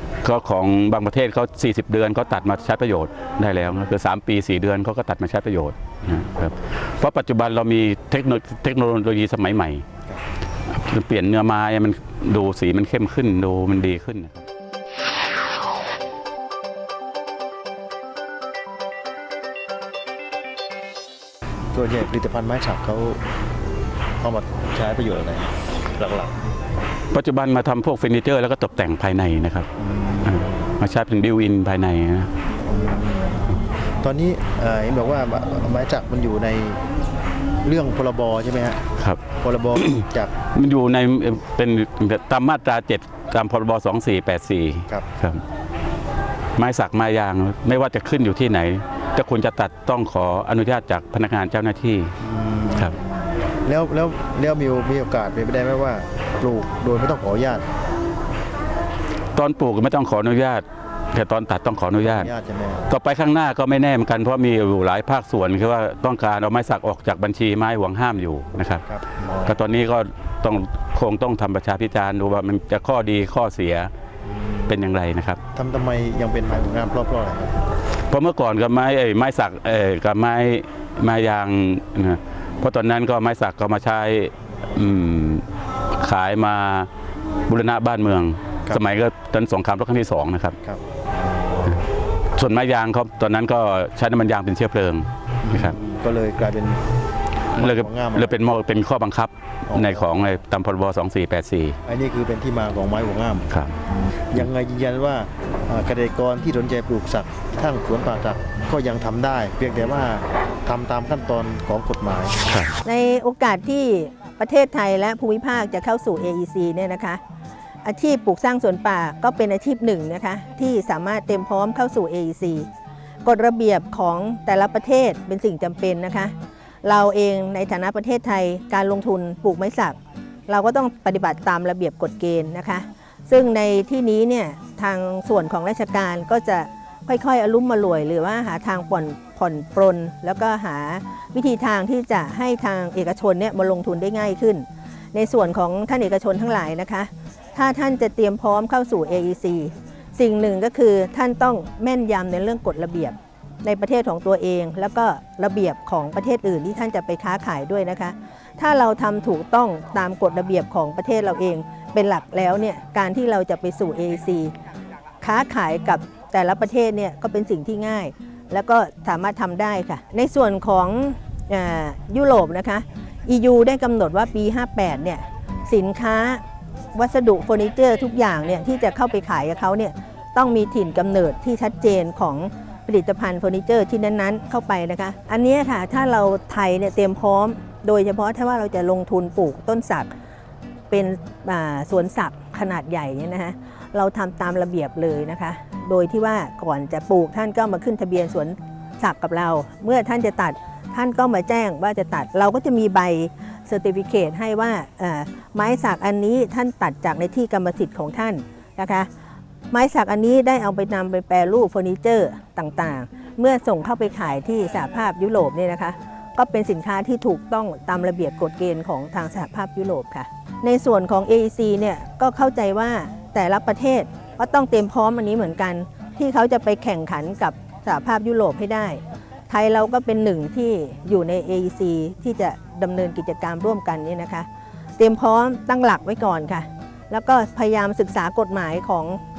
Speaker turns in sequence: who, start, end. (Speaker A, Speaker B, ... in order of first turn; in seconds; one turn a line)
Speaker A: 0.2-9.8
Speaker A: 10.7-14.4
Speaker B: 21.7-23.2
Speaker B: 24.2-26.3
Speaker A: 27.1-29.7
Speaker B: 29.8-30.6
Speaker A: 30.2-32.3
Speaker B: 32.7-36.8
Speaker B: 37.6-38.8
Speaker A: 39.0-39.2
Speaker B: 39.4-40.3
Speaker A: 39.8-45.4
Speaker A: 46.6-52.1
Speaker B: 52.2-53.0
Speaker B: 53.6-57.6
Speaker A: 59.4-62.3
Speaker B: 62.0-62.9
Speaker A: 62.9-68.8
Speaker B: 68.9-69.6
Speaker A: 69.5-73.9
Speaker B: 74.3-74.8
Speaker A: 74.7-75.4
Speaker B: 75.5-77.6
Speaker A: 78.1-85.4
Speaker A: 86.0-86.9
Speaker A: 87.5-90.6
Speaker B: 90.6-91.8
Speaker A: 92.4-95.8
Speaker B: 95.4-96.8
Speaker A: 97.5-101.8
Speaker B: 97.6-98.4
Speaker B: 99.7-100.1
Speaker B: 101.9-103.5
Speaker B: 104.3-112.4
Speaker A: 112.5-112.8
Speaker C: 112.8-117.2
Speaker C: 117.8-122.7
Speaker C: 123.2-164.5
Speaker C: 165.2-176.4
Speaker C: 176.9-190.1
Speaker C: 190.9-209.1
Speaker C: 209.7-234.5
Speaker C: 235.0-239.2